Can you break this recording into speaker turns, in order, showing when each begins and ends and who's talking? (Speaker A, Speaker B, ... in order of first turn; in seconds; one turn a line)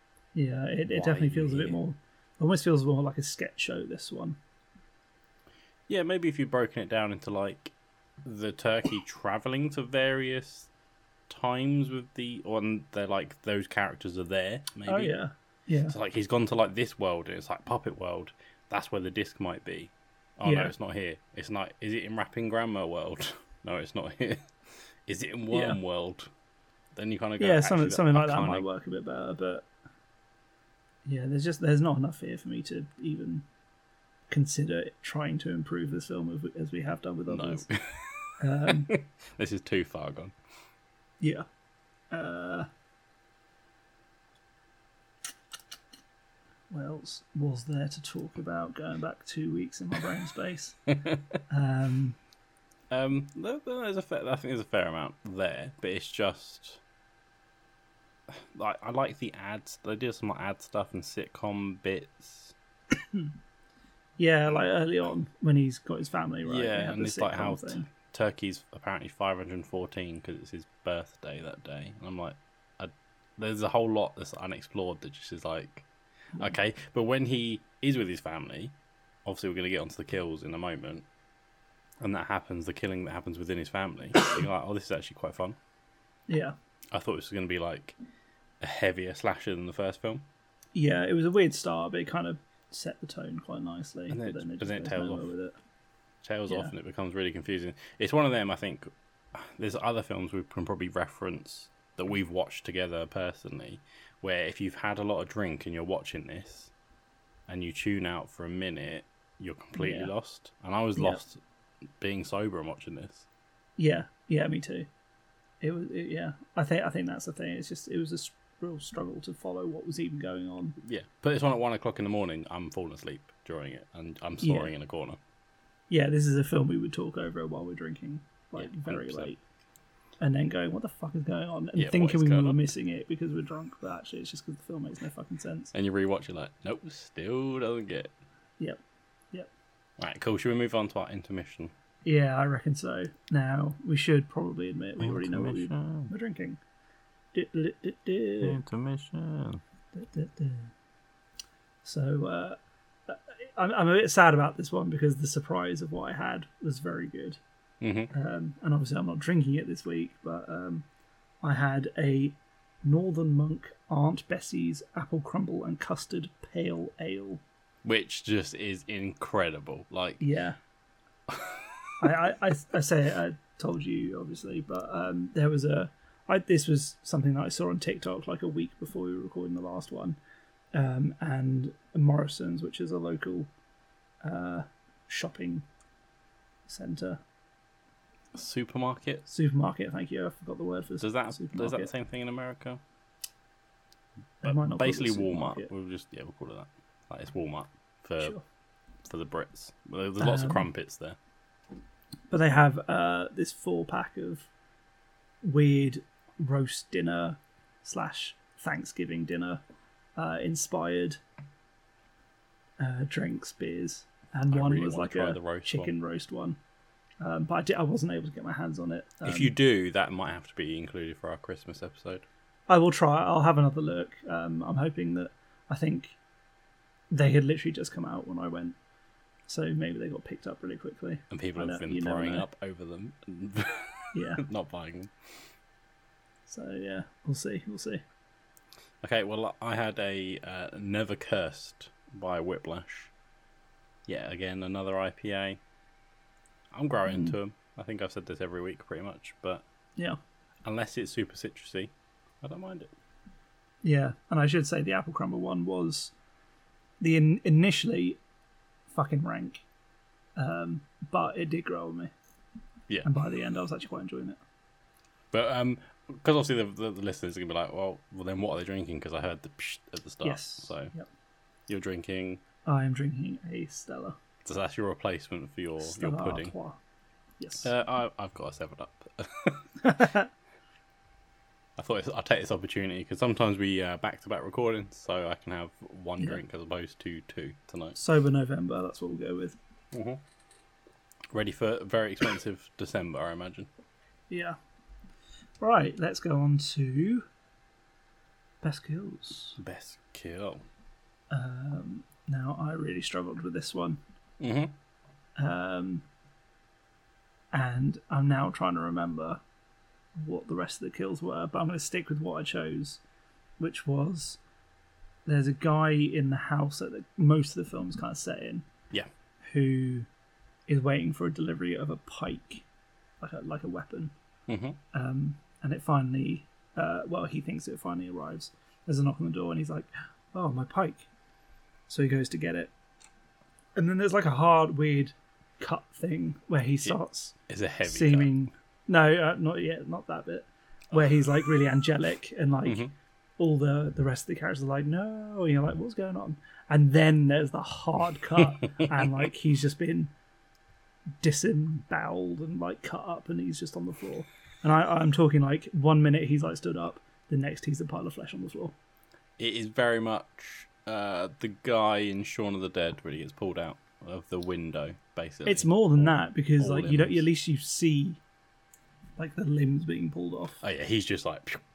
Speaker A: 0.3-4.4
Speaker B: 0.9-1.8
Speaker B: 5.9-10.7
Speaker B: 11.3-15.2
Speaker A: 14.9-15.9
Speaker B: 15.9-24.5
Speaker A: 20.4-20.7
Speaker B: 25.1-26.3
Speaker A: 25.5-25.8
Speaker B: 26.9-28.6
Speaker A: 27.4-29.7
Speaker A: 31.0-33.5
Speaker A: 34.3-37.6
Speaker B: 37.3-40.3
Speaker A: 38.4-38.9
Speaker A: 42.1-42.7
Speaker A: 46.7-50.8
Speaker B: 51.0-51.4
Speaker A: 51.5-52.2
Speaker B: 52.9-56.8
Speaker B: 58.3-62.5
Speaker A: 63.0-63.3
Speaker A: 64.2-67.9
Speaker B: 66.5-78.7
Speaker B: 79.2-81.0
Speaker B: 82.0-85.6
Speaker A: 86.3-86.5
Speaker B: 86.9-88.0
Speaker B: 88.6-90.2
Speaker A: 90.7-95.5
Speaker B: 94.1-95.3
Speaker B: 96.2-106.7
Speaker B: 107.5-111.4
Speaker A: 109.8-110.1
Speaker A: 111.0-111.2
Speaker B: 112.0-113.2
Speaker A: 113.8-114.9
Speaker A: 115.6-120.8
Speaker B: 120.8-125.2
Speaker A: 124.4-124.7
Speaker A: 125.9-129.4
Speaker B: 128.6-129.3
Speaker A: 130.2-135.7
Speaker B: 131.8-132.6
Speaker B: 135.7-138.1
Speaker B: 140.0-141.7
Speaker A: 142.0-146.6
Speaker B: 145.0-146.1
Speaker A: 147.3-148.6
Speaker B: 148.4-149.6
Speaker A: 149.9-150.7
Speaker A: 151.8-157.4
Speaker B: 157.8-158.1
Speaker A: 158.1-160.8
Speaker A: 161.4-167.4
Speaker B: 167.8-170.2
Speaker A: 170.2-170.6
Speaker B: 171.3-172.1
Speaker A: 172.0-180.2
Speaker A: 180.7-183.5
Speaker A: 184.2-185.7
Speaker A: 186.7-187.2
Speaker B: 188.3-189.2
Speaker A: 189.3-191.9
Speaker B: 191.0-192.8
Speaker B: 194.4-198.3
Speaker A: 194.4-195.7
Speaker B: 199.1-201.2
Speaker A: 200.2-200.7
Speaker A: 202.3-204.5
Speaker A: 205.4-209.6
Speaker A: 210.2-211.2
Speaker A: 212.8-216.6
Speaker B: 214.5-215.9
Speaker A: 217.2-219.5
Speaker B: 219.2-222.2
Speaker A: 222.7-226.2
Speaker A: 227.1-228.8
Speaker A: 229.5-232.4
Speaker B: 231.3-235.4
Speaker A: 234.1-234.4
Speaker A: 236.5-238.0
Speaker B: 239.0-243.1
Speaker B: 244.1-245.6
Speaker B: 246.7-249.6
Speaker A: 247.1-247.3
Speaker B: 250.6-252.9
Speaker A: 253.8-256.1
Speaker A: 257.0-258.2
Speaker A: 258.9-259.6
Speaker A: 260.4-262.1
Speaker A: 263.0-264.4
Speaker B: 265.3-270.9
Speaker A: 270.2-271.1
Speaker B: 271.7-272.4
Speaker A: 272.6-274.2
Speaker B: 274.4-276.5
Speaker A: 275.8-276.8
Speaker A: 277.4-277.7
Speaker B: 277.6-280.0
Speaker A: 279.8-280.3
Speaker B: 281.8-288.0
Speaker A: 287.9-289.6
Speaker B: 289.9-290.2
Speaker B: 291.3-293.7
Speaker A: 294.3-294.6
Speaker A: 295.6-297.2
Speaker A: 298.6-299.6
Speaker B: 299.6-300.6
Speaker A: 301.3-304.0
Speaker B: 304.4-304.7
Speaker A: 305.4-306.1
Speaker A: 307.5-309.4
Speaker A: 310.2-313.0
Speaker A: 313.6-314.4
Speaker A: 315.2-318.7
Speaker A: 319.4-320.1
Speaker A: 320.7-322.6
Speaker A: 323.2-324.1
Speaker B: 324.5-324.8
Speaker A: 324.9-331.1
Speaker A: 331.9-332.7
Speaker A: 333.8-342.9
Speaker B: 336.8-338.3
Speaker B: 340.9-341.2
Speaker B: 342.6-342.9
Speaker A: 343.4-350.1
Speaker B: 348.4-349.1
Speaker A: 351.2-358.7
Speaker B: 359.4-367.2
Speaker A: 365.4-368.2
Speaker A: 369.2-370.6
Speaker B: 370.6-371.6